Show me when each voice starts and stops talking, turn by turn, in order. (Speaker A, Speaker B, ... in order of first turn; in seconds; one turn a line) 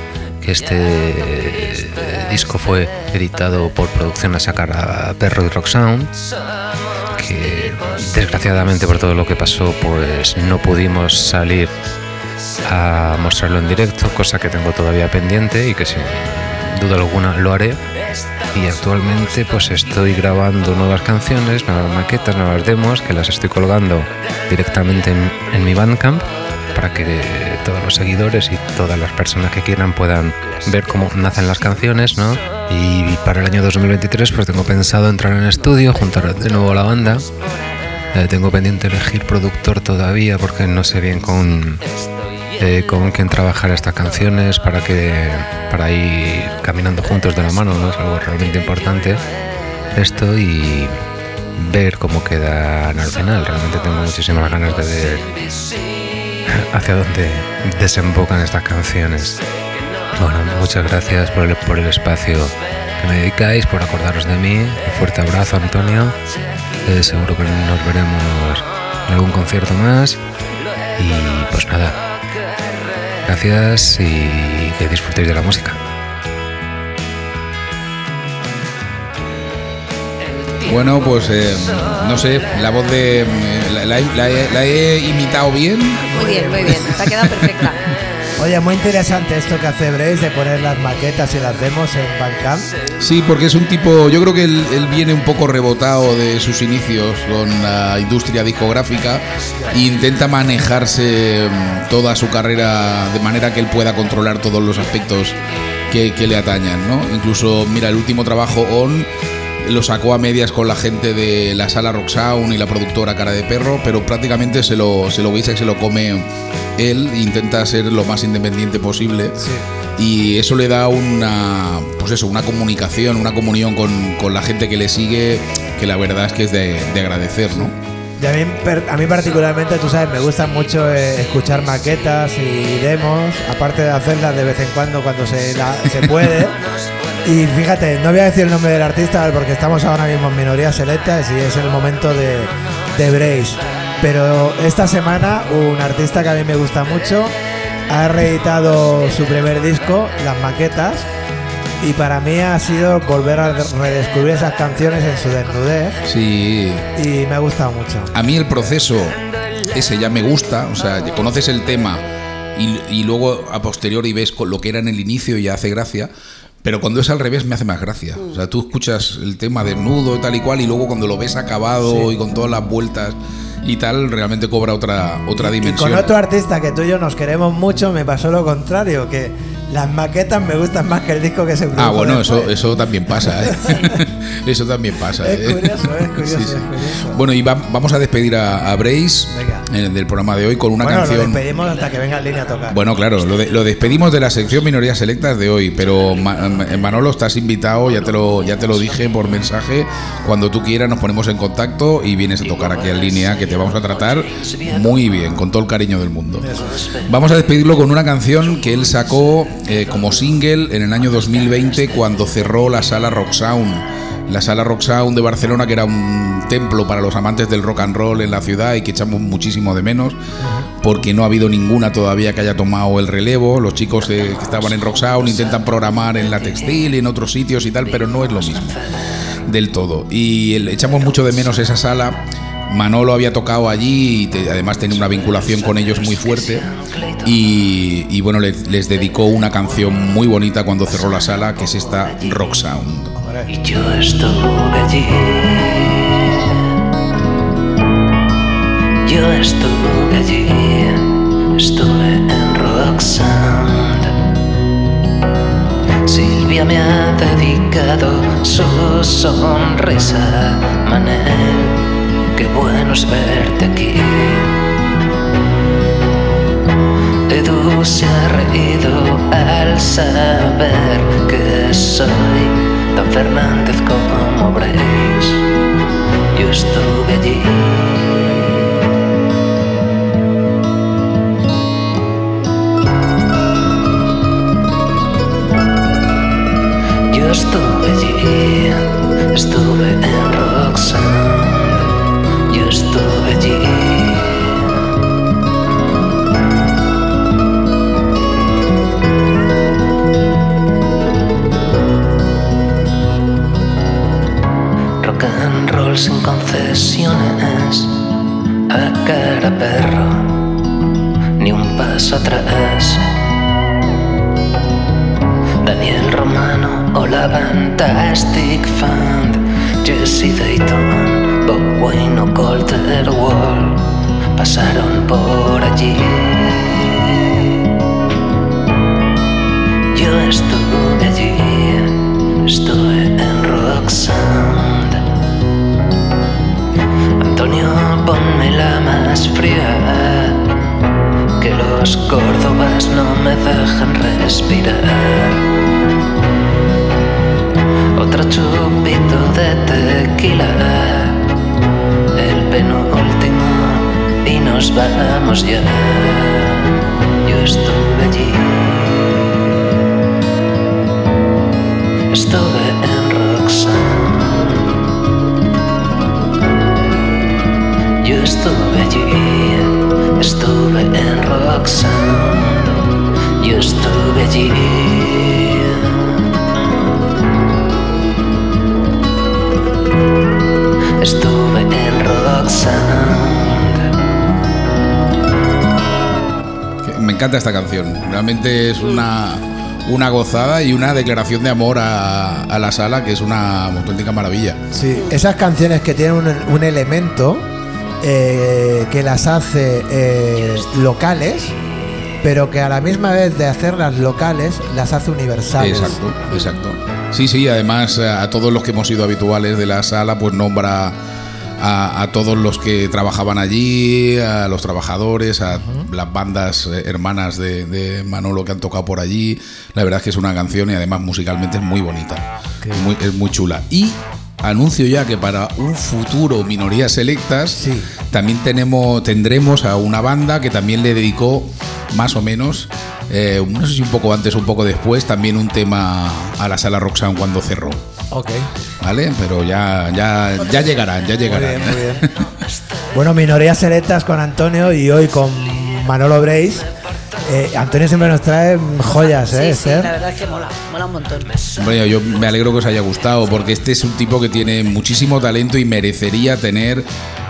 Speaker A: 0.4-6.1
Speaker A: 7.1-11.7
Speaker A: 12.6-17.8
Speaker A: 18.5-37.2
Speaker A: 38.1-41.8
Speaker A: 42.6-49.2
Speaker A: 49.9-50.9
Speaker A: 51.6-55.3
Speaker B: 55.3-56.3
Speaker A: 56.5-59.4
Speaker A: 60.2-66.2
Speaker A: 66.8-70.2
Speaker A: 71.0-72.0
Speaker B: 72.2-73.2
Speaker A: 73.3-75.8
Speaker B: 80.2-83.3
Speaker C: 80.7-87.5
Speaker D: 86.1-86.8
Speaker E: 86.1-87.8
Speaker D: 88.4-92.7
Speaker C: 93.0-105.4
Speaker C: 105.9-119.4
Speaker D: 119.4-119.6
Speaker C: 120.0-127.7
Speaker D: 128.2-136.6
Speaker D: 137.2-147.3
Speaker D: 147.9-151.1
Speaker D: 151.8-156.0
Speaker C: 156.0-156.9
Speaker D: 156.9-158.1
Speaker C: 158.1-162.0
Speaker C: 162.5-166.1
Speaker C: 166.6-176.1
Speaker D: 175.4-182.5
Speaker C: 181.8-191.4
Speaker D: 183.3-183.7
Speaker D: 185.2-187.2
Speaker D: 189.3-189.6
Speaker D: 190.8-192.8
Speaker C: 192.7-206.5
Speaker B: 196.0-197.0
Speaker B: 197.9-199.3
Speaker B: 202.4-205.4
Speaker D: 206.4-206.7
Speaker B: 206.5-213.0
Speaker C: 207.1-220.2
Speaker D: 220.4-220.7
Speaker C: 220.8-228.8
Speaker B: 224.0-226.9
Speaker B: 227.8-229.4
Speaker C: 229.4-236.7
Speaker B: 230.9-231.8
Speaker B: 234.8-237.6
Speaker C: 237.2-243.1
Speaker B: 239.0-242.7
Speaker D: 243.2-243.5
Speaker B: 243.5-246.7
Speaker B: 249.0-254.1
Speaker B: 256.1-264.6
Speaker B: 267.3-275.5
Speaker B: 276.3-278.5
Speaker B: 287.1-291.9
Speaker B: 292.5-294.7
Speaker B: 305.0-308.0
Speaker B: 308.7-310.5
Speaker B: 311.4-313.1
Speaker B: 315.6-327.5
Speaker B: 329.9-335.0
Speaker B: 337.2-340.5
Speaker B: 341.4-345.4
Speaker B: 347.9-351.2
Speaker B: 352.1-356.7
Speaker B: 357.2-359.2
Speaker B: 362.1-364.6
Speaker B: 368.0-372.8
Speaker B: 373.4-376.0
Speaker B: 381.0-383.9
Speaker C: 386.8-394.6
Speaker D: 394.7-397.4
Speaker D: 398.0-401.5
Speaker D: 402.2-405.9
Speaker C: 405.6-411.0
Speaker C: 411.6-437.8
Speaker D: 427.6-427.9
Speaker D: 438.1-438.5
Speaker C: 438.8-442.3
Speaker D: 441.2-442.1
Speaker D: 442.9-446.6
Speaker D: 447.2-449.9
Speaker E: 448.9-451.3
Speaker C: 451.6-456.9